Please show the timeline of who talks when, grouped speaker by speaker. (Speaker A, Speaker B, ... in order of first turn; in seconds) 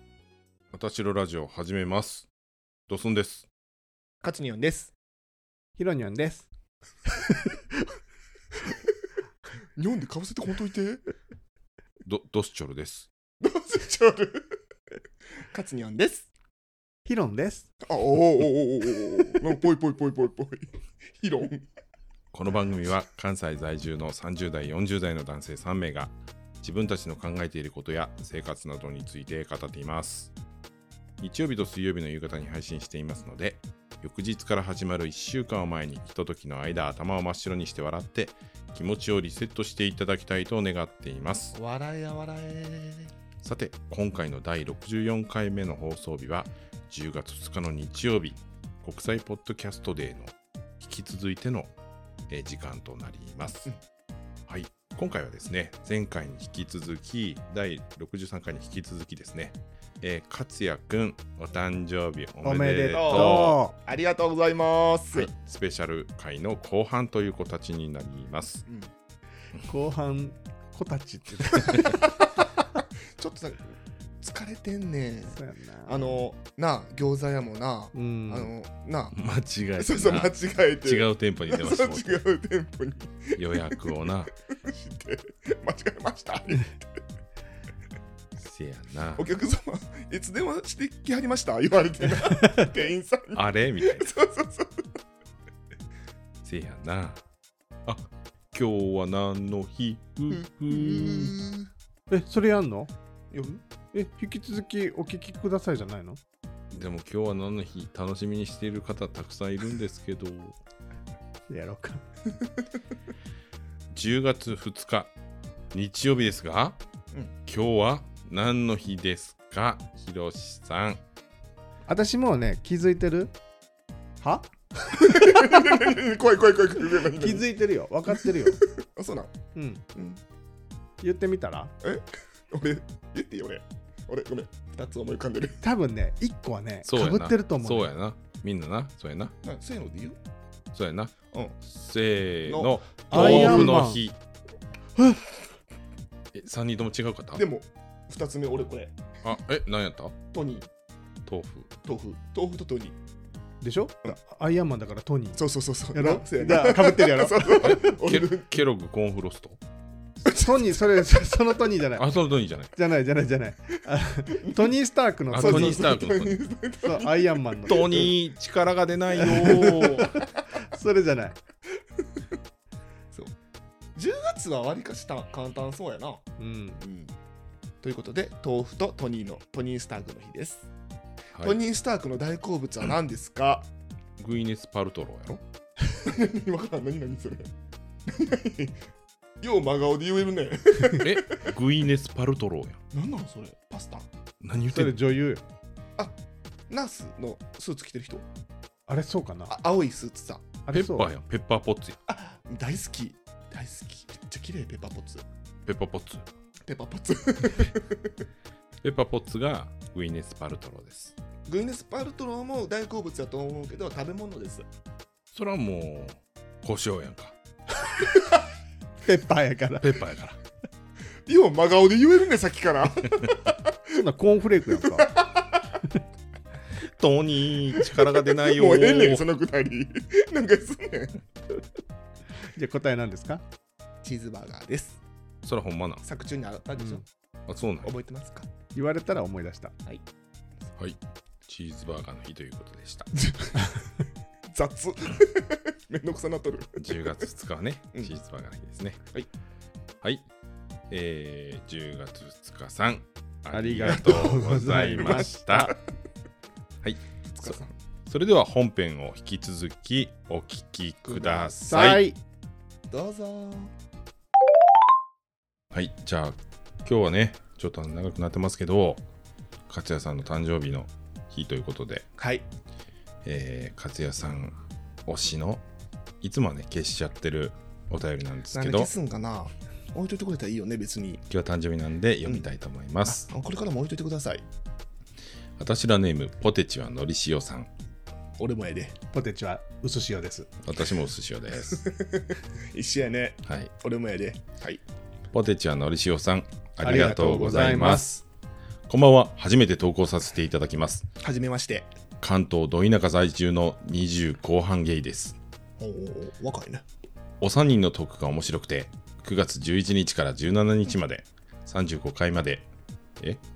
Speaker A: 0.7-2.3, 2.9-3.5, 12.1-13.1, 22.3-30.3, 31.2-41.6, 43.4-51.7, 52.3-53.7, 54.5-63.6, 65.1-68.6, 79.1-82.2, 83.4-84.3, 88.4-89.3, 93.3-94.1, 96.4-97.2, 97.8-101.3, 106.7-110.6, 113.9-115.1, 115.7-116.8, 117.5-121.0, 136.8-139.3, 140.7-144.2, 146.3-147.4, 149.2-150.2, 151.3-151.7, 157.6-159.6, 162.0-162.7, 165.3-166.4, 167.7-170.1, 184.2-185.4, 191.0-192.8, 194.4-195.0, 200.7-202.0, 205.7-206.3, 208.8-211.2, 215.3-217.3, 219.8-220.4, 226.8-229.3, 235.4-236.0, 237.5-237.9, 240.8-243.1, 246.8-249.0, 250.9-255.7, 256.8-262.0, 265.7-269.0, 269.7-272.1, 273.2-275.6, 276.2-278.9, 281.3-283.3, 285.6-287.7, 290.6-291.8, 293.5-293.7, 295.3-298.2, 298.9-301.1, 302.2-305.4, 307.4-312.7
Speaker B: 4.2-4.9, 9.8-11.0, 13.4-14.6, 15.5-16.3, 17.9-21.6, 41.5-43.1, 62.9-65.3, 73.2-79.2, 79.8-83.8, 84.5-87.0, 89.2-94.9, 100.3-101.7, 103.3-103.6, 125.0-127.5, 128.8-129.3, 129.9-130.2, 131.8-135.6, 139.4-140.2, 142.5-143.8, 147.4-149.2, 150.3-150.7, 151.8-153.0, 155.4-158.6, 160.3-160.8, 165.3-168.1, 169.2-170.2, 173.9-176.3, 176.8-177.1, 177.8-180.7, 181.4-183.7, 186.0-187.5, 188.1-188.8, 189.4-191.4, 192.9-194.1, 196.7-198.2, 199.5-200.4, 202.1-205.2, 206.7-208.1, 211.5-214.7, 221.3-223.5, 224.8-225.4, 227.9-231.2, 234.0-235.0, 236.0-237.0, 237.8-238.5, 243.2-243.7, 244.5-247.2, 253.9-254.6, 257.3-257.7, 261.1-262.0, 262.9-263.7, 272.2-272.5, 278.5-281.2, 282.3-282.5, 283.0-284.4, 288.4-288.9, 291.7-294.8, 301.2-301.9, 305.8-306.8
Speaker C: 5.8-6.5, 7.2-7.6, 17.1-17.7, 62.4-63.7, 69.7-72.0, 75.3-76.2, 78.0-78.5, 102.1-102.9, 103.9-106.2, 111.5-112.0, 121.9-123.3, 124.2-125.7, 127.2-128.6, 129.6-129.8, 131.0-131.7, 135.6-137.9, 143.1-144.0, 153.6-155.4, 155.9-157.9, 160.2-162.1, 162.7-165.9, 166.8-167.9, 169.5-171.4, 176.4-176.8, 194.7-195.4, 198.9-199.6, 200.7-201.1, 219.0-220.0, 223.9-225.1, 232.6-233.4, 238.8-239.7, 253.5-255.8, 261.7-262.2, 289.1-290.5, 296.8-298.1